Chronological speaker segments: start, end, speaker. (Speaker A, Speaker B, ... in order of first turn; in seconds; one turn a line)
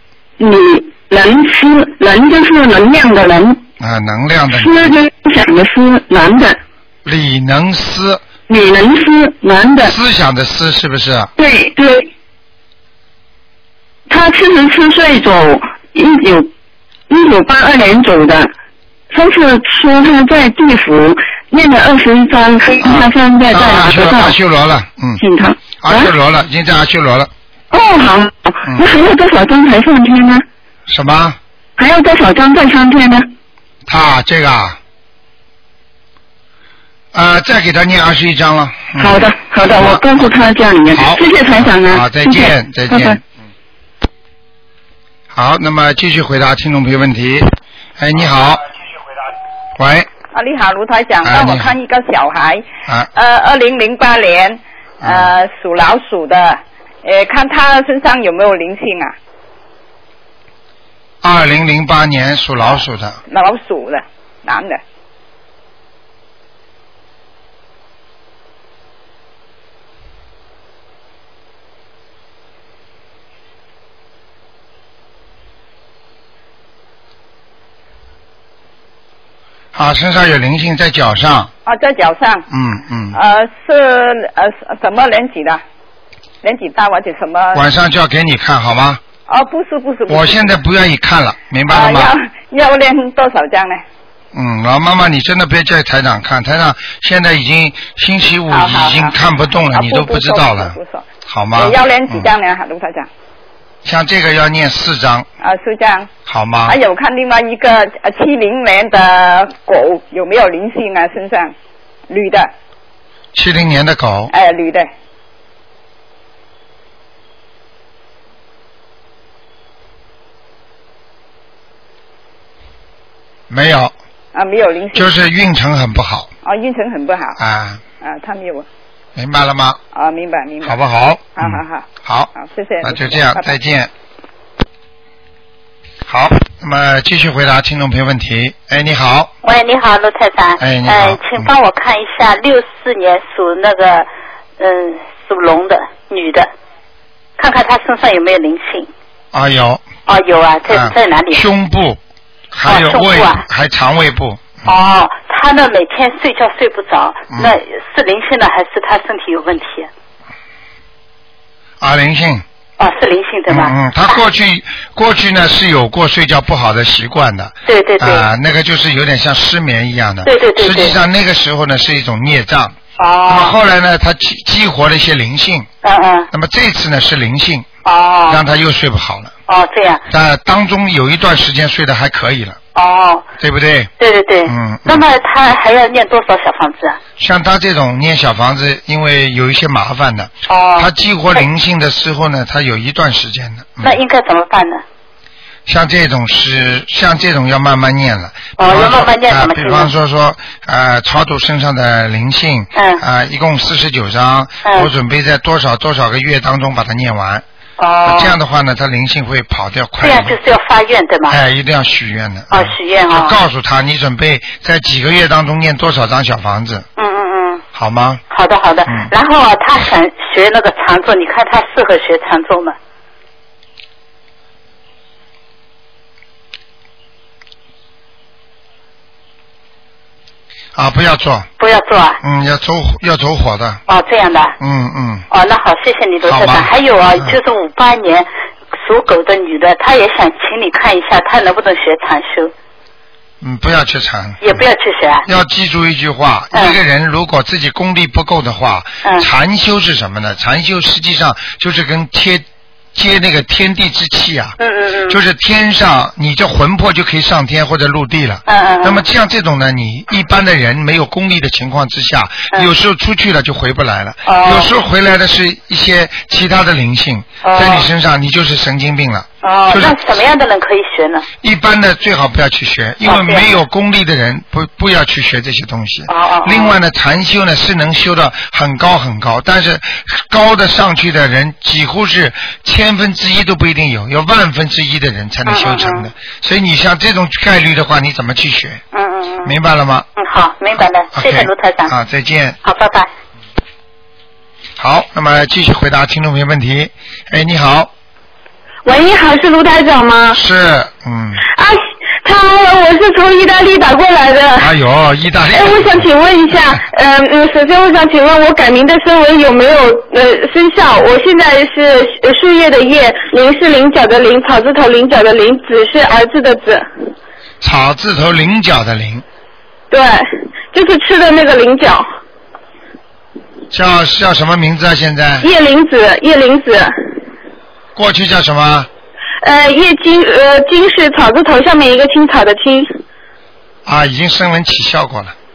Speaker A: 0.4-3.6
Speaker B: 3.8-5.0
Speaker A: 4.5-6.6
Speaker B: 7.0-8.2
Speaker A: 8.5-10.0
Speaker B: 9.8-11.3
Speaker A: 11.4-12.1
Speaker A: 14.1-16.5
Speaker A: 17.1-18.5
Speaker A: 19.1-24.4
Speaker B: 22.8-25.2
Speaker A: 25.2-26.1
Speaker B: 25.8-27.3
Speaker A: 27.7-30.4
Speaker B: 30.9-31.4
Speaker A: 31.8-33.3
Speaker B: 33.9-34.8
Speaker B: 37.1-43.2
Speaker A: 39.0-43.2
Speaker B: 45.3-48.6
Speaker B: 49.8-50.1
Speaker C: 50.3-59.1
Speaker B: 51.2-51.7
Speaker B: 55.0-55.3
Speaker B: 61.2-63.2
Speaker C: 63.3-64.8
Speaker B: 79.7-81.5
Speaker C: 81.7-82.5
Speaker B: 82.5-83.2
Speaker C: 83.1-85.6
Speaker C: 86.4-87.7
Speaker B: 87.5-89.0
Speaker C: 89.3-90.6
Speaker B: 90.1-92.1
Speaker C: 91.7-93.8
Speaker B: 94.3-102.3
Speaker C: 98.5-99.1
Speaker C: 99.7-103.1
Speaker B: 103.8-105.3
Speaker C: 105.4-106.1
Speaker B: 106.2-106.8
Speaker C: 106.7-111.5
Speaker C: 112.1-112.5
Speaker B: 113.3-114.3
Speaker C: 114.3-114.9
Speaker B: 123.5-123.9
Speaker C: 124.3-125.1
Speaker B: 124.9-126.3
Speaker C: 126.4-127.4
Speaker B: 127.4-127.8
Speaker C: 128.0-128.7
Speaker B: 129.2-129.8
Speaker C: 129.9-130.8
Speaker B: 130.6-132.3
Speaker C: 131.3-133.6
Speaker B: 132.8-133.9
Speaker B: 136.1-139.3
Speaker D: 139.4-144.1
Speaker B: 140.6-141.5
Speaker D: 144.6-146.5
Speaker D: 147.4-148.9
Speaker B: 149.3-149.9
Speaker D: 150.1-151.4
Speaker B: 150.7-152.0
Speaker B: 152.5-154.7
Speaker D: 152.7-153.4
Speaker D: 154.6-159.9
Speaker B: 161.8-162.4
Speaker D: 162.8-164.2
Speaker B: 163.5-175.7
Speaker D: 167.7-168.3
Speaker D: 170.2-171.0
Speaker D: 173.0-173.6
Speaker D: 175.8-176.3
Speaker B: 176.3-177.7
Speaker D: 177.8-178.4
Speaker B: 178.3-179.3
Speaker D: 179.5-180.0
Speaker B: 180.1-182.6
Speaker D: 182.7-183.2
Speaker B: 183.4-183.9
Speaker D: 184.0-187.0
Speaker B: 184.4-185.0
Speaker B: 187.2-193.9
Speaker D: 190.5-190.9
Speaker D: 193.8-194.8
Speaker B: 195.7-207.4
Speaker D: 198.6-199.9
Speaker D: 202.7-203.0
Speaker D: 204.6-204.9
Speaker D: 207.8-208.3
Speaker B: 208.0-210.3
Speaker D: 210.0-211.4
Speaker B: 211.3-216.9
Speaker D: 212.5-213.3
Speaker D: 217.0-217.6
Speaker B: 217.7-218.2
Speaker D: 218.3-222.8
Speaker B: 230.7-231.5
Speaker D: 231.6-232.2
Speaker B: 232.2-233.8
Speaker D: 233.9-234.6
Speaker B: 234.6-235.3
Speaker D: 235.3-242.5
Speaker B: 236.2-237.4
Speaker B: 243.4-244.6
Speaker D: 244.4-245.2
Speaker B: 245.2-254.6
Speaker D: 254.6-255.2
Speaker B: 255.1-270.0
Speaker D: 258.5-259.0
Speaker D: 264.2-264.7
Speaker D: 267.4-267.9
Speaker D: 269.4-271.2
Speaker B: 271.4-288.8
Speaker D: 273.0-273.6
Speaker D: 276.1-276.8
Speaker D: 285.4-286.1
Speaker D: 288.9-289.5
Speaker B: 289.4-290.1
Speaker D: 290.2-291.9
Speaker B: 291.1-292.6
Speaker D: 292.6-293.1
Speaker B: 294.8-297.9
Speaker E: 298.8-300.4
Speaker B: 300.3-301.4
Speaker E: 301.5-304.7
Speaker B: 304.6-306.1
Speaker E: 305.5-316.9
Speaker B: 317.6-319.2
Speaker E: 319.9-322.1
Speaker B: 323.7-325.5
Speaker E: 325.4-327.2
Speaker B: 327.9-328.9
Speaker E: 329.4-333.0
Speaker B: 333.8-335.3